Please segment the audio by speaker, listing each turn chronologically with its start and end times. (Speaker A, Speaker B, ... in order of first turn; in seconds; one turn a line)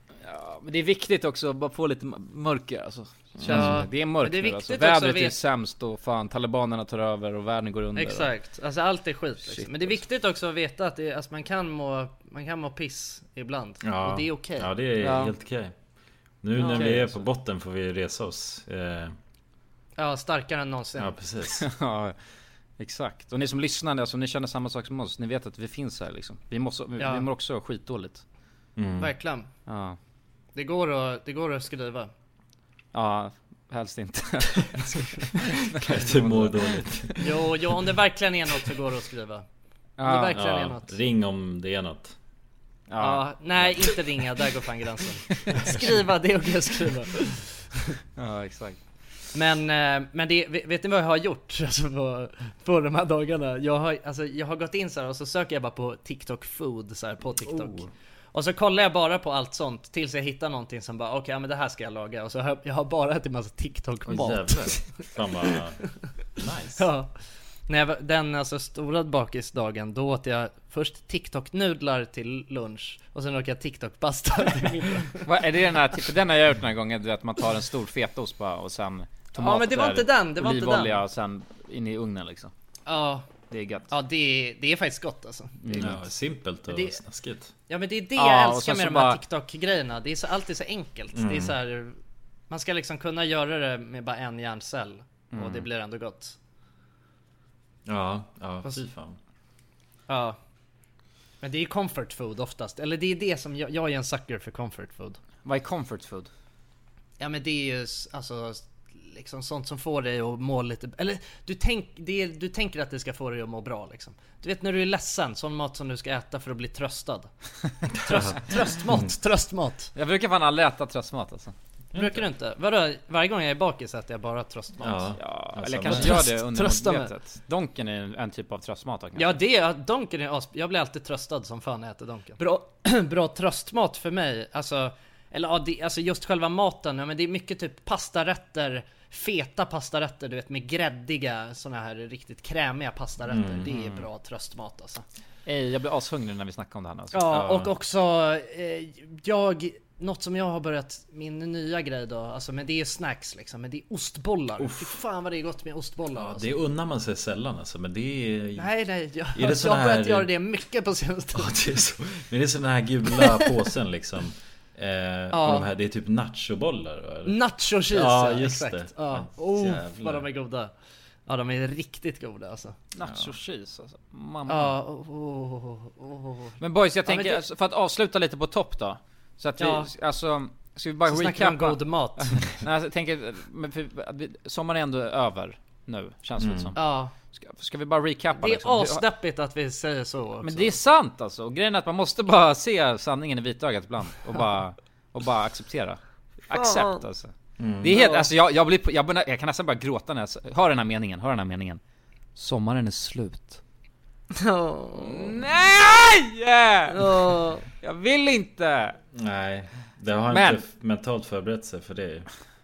Speaker A: 0.2-8.3
Speaker B: 3.4-3.9
Speaker C: 3.5-5.4
Speaker C: 8.0-14.7
Speaker A: 9.4-10.0
Speaker B: 13.8-15.7
Speaker A: 15.0-15.3
Speaker B: 16.4-19.1
Speaker C: 16.6-16.9
Speaker A: 16.6-17.2
Speaker C: 20.0-21.1
Speaker B: 21.0-21.6
Speaker A: 21.6-22.1
Speaker A: 22.8-28.2
Speaker C: 27.0-27.2
Speaker B: 28.8-29.1
Speaker C: 29.0-29.5
Speaker A: 29.7-30.0
Speaker C: 30.5-32.1
Speaker A: 32.9-37.2
Speaker B: 35.8-37.3
Speaker C: 37.2-39.4
Speaker A: 40.0-40.4
Speaker C: 40.0-40.9
Speaker B: 40.3-42.1
Speaker A: 42.9-43.2
Speaker C: 43.0-47.4
Speaker B: 45.6-45.8
Speaker A: 48.2-48.8
Speaker C: 49.3-65.5
Speaker B: 64.0-65.8
Speaker B: 66.4-66.8
Speaker C: 66.8-67.1
Speaker C: 67.7-75.2
Speaker A: 75.2-82.5
Speaker C: 79.3-81.0
Speaker C: 82.8-83.2
Speaker A: 83.5-83.9
Speaker C: 83.9-86.0
Speaker A: 85.6-86.0
Speaker B: 85.8-87.5
Speaker C: 86.7-87.0
Speaker C: 87.7-91.9
Speaker A: 88.2-89.2
Speaker B: 91.1-91.5
Speaker C: 92.5-96.3
Speaker A: 95.3-95.6
Speaker B: 97.8-99.2
Speaker C: 100.1-100.4
Speaker C: 101.4-105.2
Speaker A: 105.4-106.3
Speaker C: 107.2-117.3
Speaker B: 117.9-118.4
Speaker C: 118.0-119.9
Speaker A: 119.9-121.5
Speaker B: 121.9-122.2
Speaker C: 121.9-125.2
Speaker B: 124.8-126.3
Speaker A: 125.2-129.3
Speaker C: 125.9-127.1
Speaker C: 129.2-145.0
Speaker B: 143.3-143.7
Speaker A: 145.4-147.2
Speaker C: 147.1-156.5
Speaker B: 147.3-147.7
Speaker B: 154.6-155.0
Speaker B: 156.1-158.7
Speaker C: 158.6-161.6
Speaker B: 159.3-160.3
Speaker B: 161.3-167.4
Speaker C: 163.2-163.4
Speaker C: 165.3-165.7
Speaker C: 167.2-170.7
Speaker B: 167.9-170.3
Speaker C: 171.3-172.8
Speaker A: 172.9-174.7
Speaker B: 173.0-173.3
Speaker C: 174.5-177.4
Speaker A: 176.6-186.8
Speaker C: 179.6-179.9
Speaker C: 181.1-182.4
Speaker B: 186.4-186.8
Speaker C: 186.8-187.1
Speaker A: 187.3-189.0
Speaker C: 188.4-190.8
Speaker A: 190.4-201.8
Speaker C: 196.5-197.0
Speaker B: 197.6-197.9
Speaker C: 197.9-198.3
Speaker A: 202.3-203.6
Speaker C: 204.3-205.4
Speaker A: 204.9-209.0
Speaker C: 206.9-207.6
Speaker B: 209.1-212.3
Speaker A: 210.3-210.6